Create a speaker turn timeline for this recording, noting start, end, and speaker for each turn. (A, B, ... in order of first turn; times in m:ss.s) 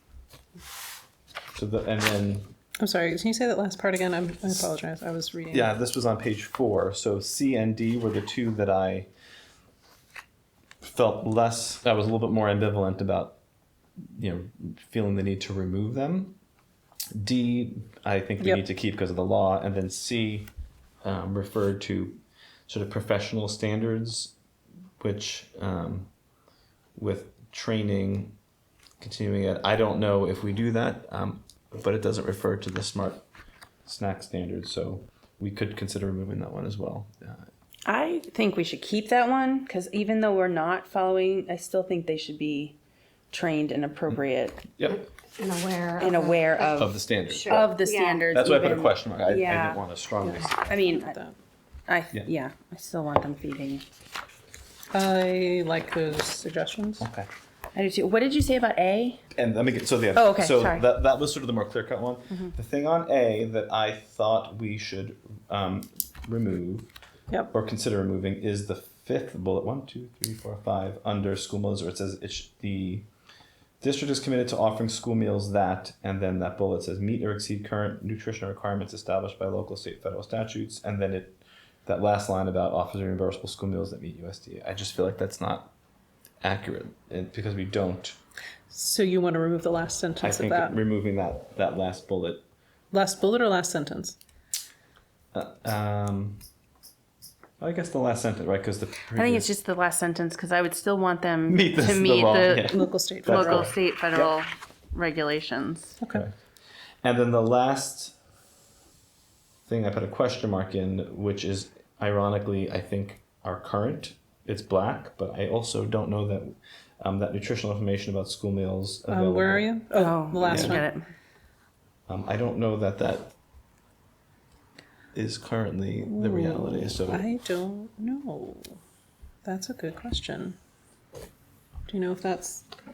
0:01.6-0:02.5 A
0:02.8-0:05.7 B
0:05.5-0:09.1 A
0:10.8-0:13.4 A
0:14.2-0:16.4 A
0:17.1-0:20.5 A
0:21.0-0:24.3 A
0:25.0-0:26.1 A
0:27.0-0:28.4 A
0:29.0-0:33.2 A
0:33.8-0:37.5 A
0:37.9-0:42.8 C
0:43.3-0:44.7 C
0:44.8-0:45.0 A
0:45.4-0:48.3 D
0:46.0-0:49.8 C
0:46.8-0:47.7 A
0:48.3-0:50.6 A
0:50.2-0:51.4 B
0:50.7-0:51.1 C
0:51.9-0:53.8 C
0:54.9-0:57.1 B
0:57.0-0:57.3 A
0:57.8-0:59.2 C
0:59.3-1:06.9 A
1:00.2-1:00.9 C
1:07.5-1:13.1 A
1:13.8-1:25.7 A
1:26.4-1:28.2 A
1:28.7-1:30.8 B
1:30.2-1:32.4 A
1:32.9-1:34.2 B
1:35.3-1:36.4 A
1:37.6-1:39.5 A
1:39.1-1:46.0 C
1:41.5-1:44.3 A
1:42.7-1:43.7 B
1:46.0-1:46.3 B
1:47.0-1:48.2 A
1:49.7-1:59.7 A
1:59.1-2:00.9 B
1:59.9-2:01.0 C
2:00.4-2:00.8 A
2:02.1-2:03.4 A
2:05.1-2:07.3 A
2:06.0-2:08.8 B
2:09.4-2:10.6 B
2:11.9-2:12.6 B